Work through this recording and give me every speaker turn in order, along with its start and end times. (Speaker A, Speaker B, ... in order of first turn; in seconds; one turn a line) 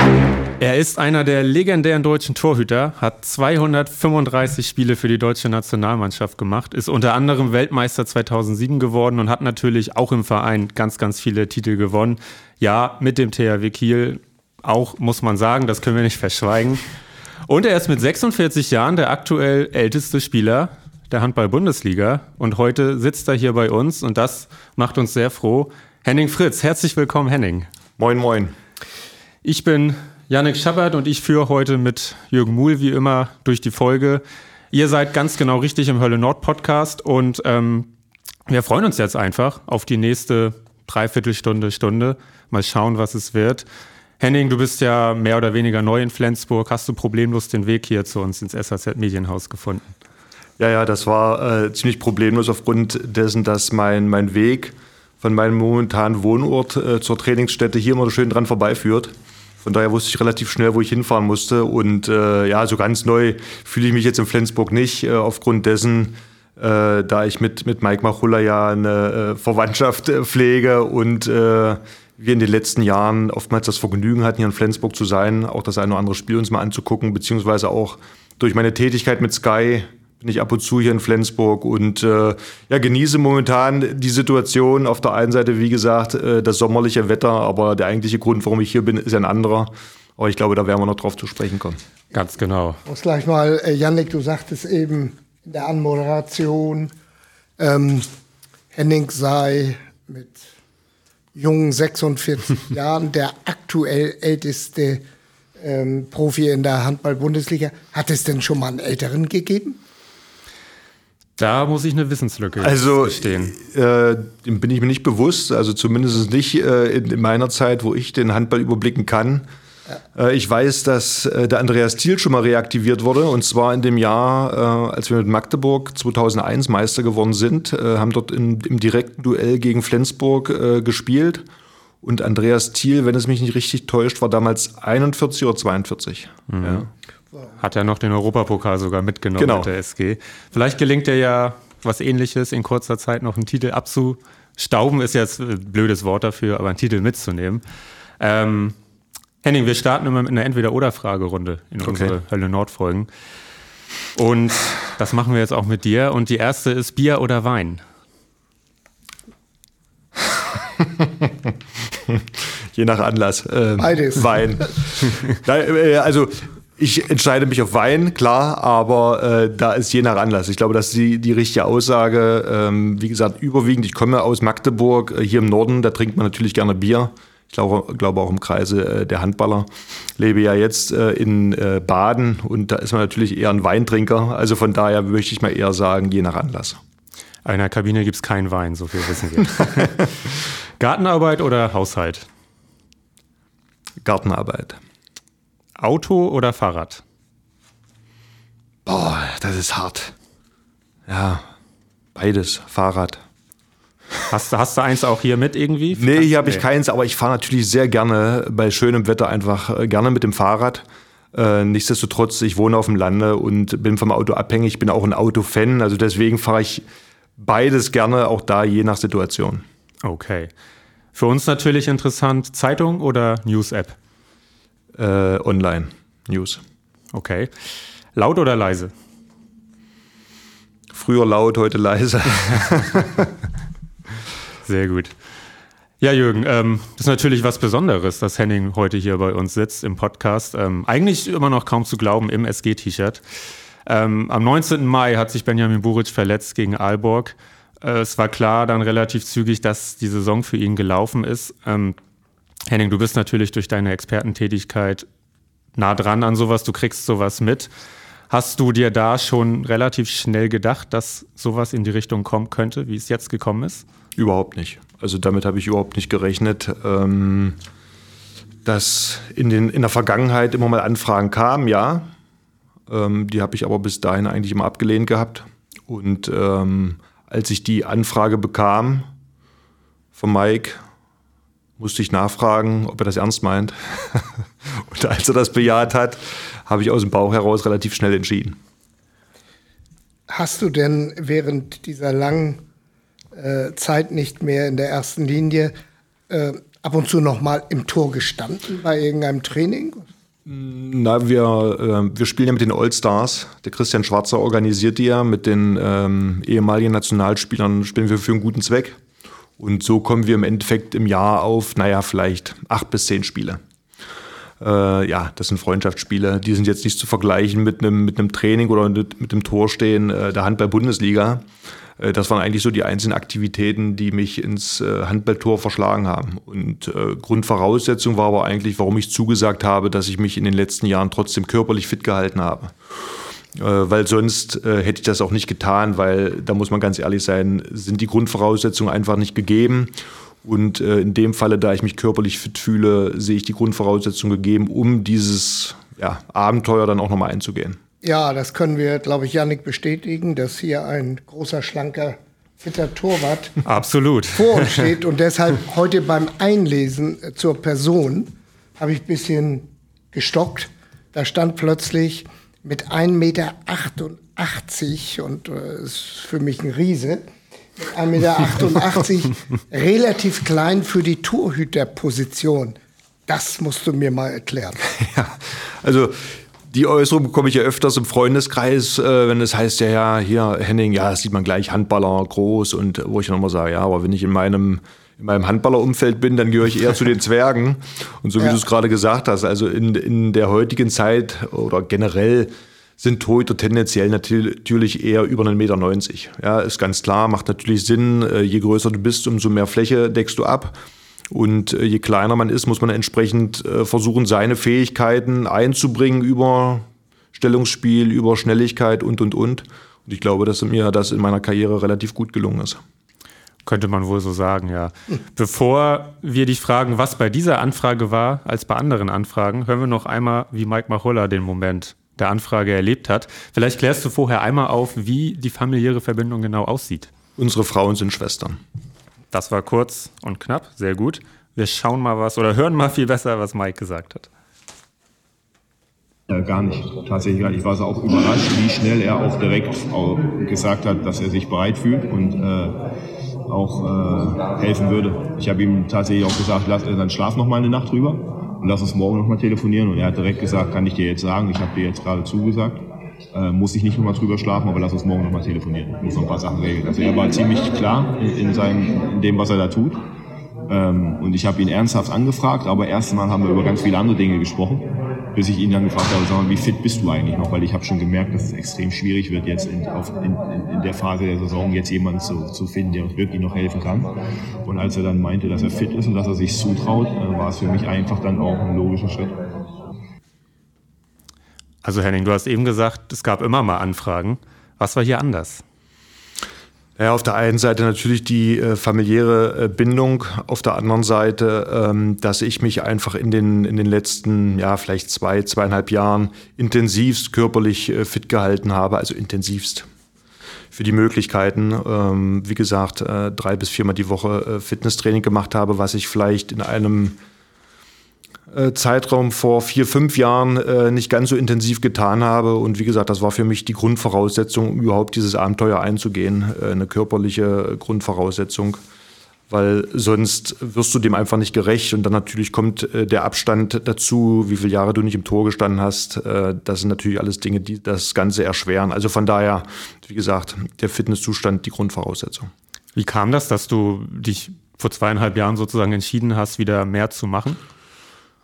Speaker A: 0.6-16.8
Speaker A: 17.5-27.7
Speaker B: 28.0-28.5
Speaker A: 29.4-37.9
Speaker A: 38.5-43.6
Speaker A: 44.2-49.9
Speaker B: 50.6-91.8
Speaker A: 92.1-92.8
Speaker C: 92.8-96.9
Speaker C: 97.6-98.1
Speaker C: 98.7-100.5
Speaker C: 101.3-105.0
Speaker C: 105.6-109.8
Speaker A: 111.4-113.5
Speaker B: 112.6-119.5
Speaker B: 120.1-131.4
Speaker B: 132.0-136.9
Speaker A: 136.5-136.9
Speaker A: 137.6-147.6
Speaker B: 139.4-139.7
Speaker A: 148.2-148.8
Speaker A: 149.4-153.1
Speaker B: 151.8-152.1
Speaker A: 154.1-157.8
Speaker B: 160.8-186.8
Speaker C: 163.8-164.5
Speaker A: 187.4-190.1
Speaker A: 190.8-192.3
Speaker B: 194.0-194.8
Speaker A: 195.8-197.0
Speaker B: 198.8-200.1
Speaker B: 201.1-201.5
Speaker B: 202.1-203.2
Speaker A: 204.3-206.6
Speaker B: 205.9-216.8
Speaker B: 217.4-219.6
Speaker A: 220.0-220.5
Speaker A: 221.1-223.9
Speaker B: 224.9-226.6
Speaker A: 227.1-227.5
Speaker A: 228.1-228.9
Speaker B: 230.9-233.3
Speaker A: 234.6-235.1
Speaker A: 236.0-243.2
Speaker A: 243.8-251.9
Speaker A: 252.7-255.1
Speaker A: 255.7-257.7
Speaker A: 258.3-263.8
Speaker B: 264.2-267.6
Speaker B: 268.6-272.1
Speaker B: 272.9-279.1
Speaker B: 280.1-280.8
Speaker B: 281.8-288.6
Speaker C: 290.3-292.6
Speaker C: 293.3-295.7
Speaker C: 296.3-300.1
Speaker B: 300.4-309.0
Speaker B: 309.6-313.6
Speaker B: 314.6-321.4
Speaker B: 322.0-347.8
Speaker C: 348.0-353.6
Speaker A: 353.6-354.9
Speaker C: 354.3-367.2
Speaker C: 367.8-374.8
Speaker B: 374.9-400.8
Speaker B: 401.3-412.8
Speaker A: 413.6-427.1
Speaker B: 427.4-428.6
Speaker A: 429.3-434.3
Speaker D: 436.3-442.8
Speaker D: 443.5-452.8
Speaker D: 453.3-460.0
Speaker D: 460.7-474.1
Speaker D: 474.6-479.4
Speaker A: 481.8-485.6
Speaker B: 487.0-499.9
Speaker B: 500.7-507.2
Speaker B: 508.5-518.8
Speaker B: 519.5-532.5
Speaker A: 532.9-537.6